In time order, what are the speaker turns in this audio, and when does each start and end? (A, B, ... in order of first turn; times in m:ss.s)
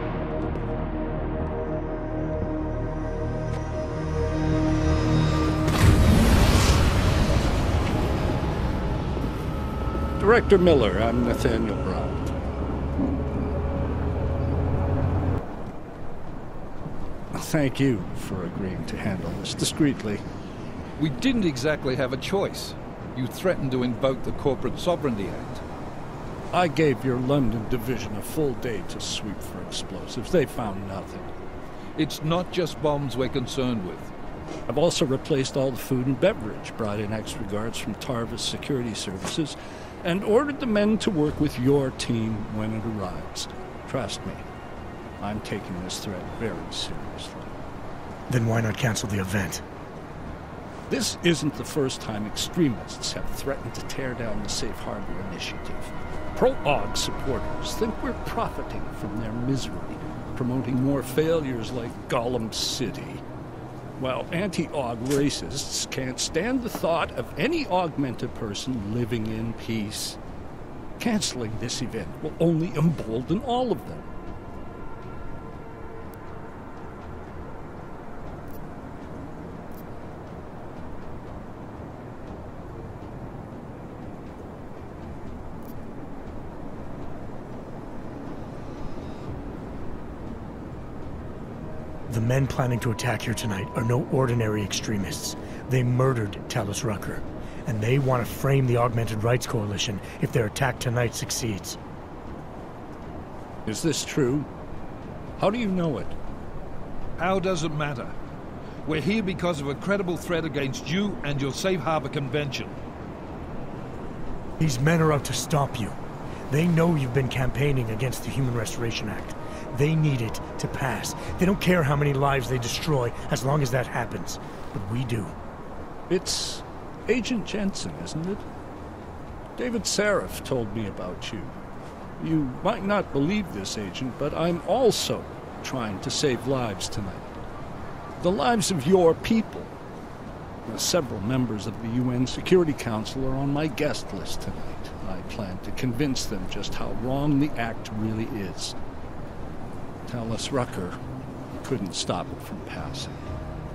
0:10.2-0:12.3 A
0:17.3-0:20.2 A
0:21.0-0:25.6 B
0:26.5-0:31.3 A
0:32.0-0:34.1 B
0:34.7-0:44.4 A
0:45.2-0:47.5 A
0:48.3-0:49.6 C
0:50.9-1:03.2 A
1:04.0-1:10.2 A
1:11.0-1:14.1 A
1:32.1-1:41.8 C
1:43.6-1:44.5 A
1:45.4-1:46.2 A
1:47.2-1:48.1 B
1:48.8-1:52.8 B
1:54.6-1:56.0 C
1:56.5-2:05.4 C
2:06.1-2:08.4 A
2:09.6-2:11.5 A
2:12.2-2:17.3 A
2:18.2-2:19.7 A
2:20.6-2:28.8 A
2:30.1-2:31.0 A
2:31.6-2:33.3 A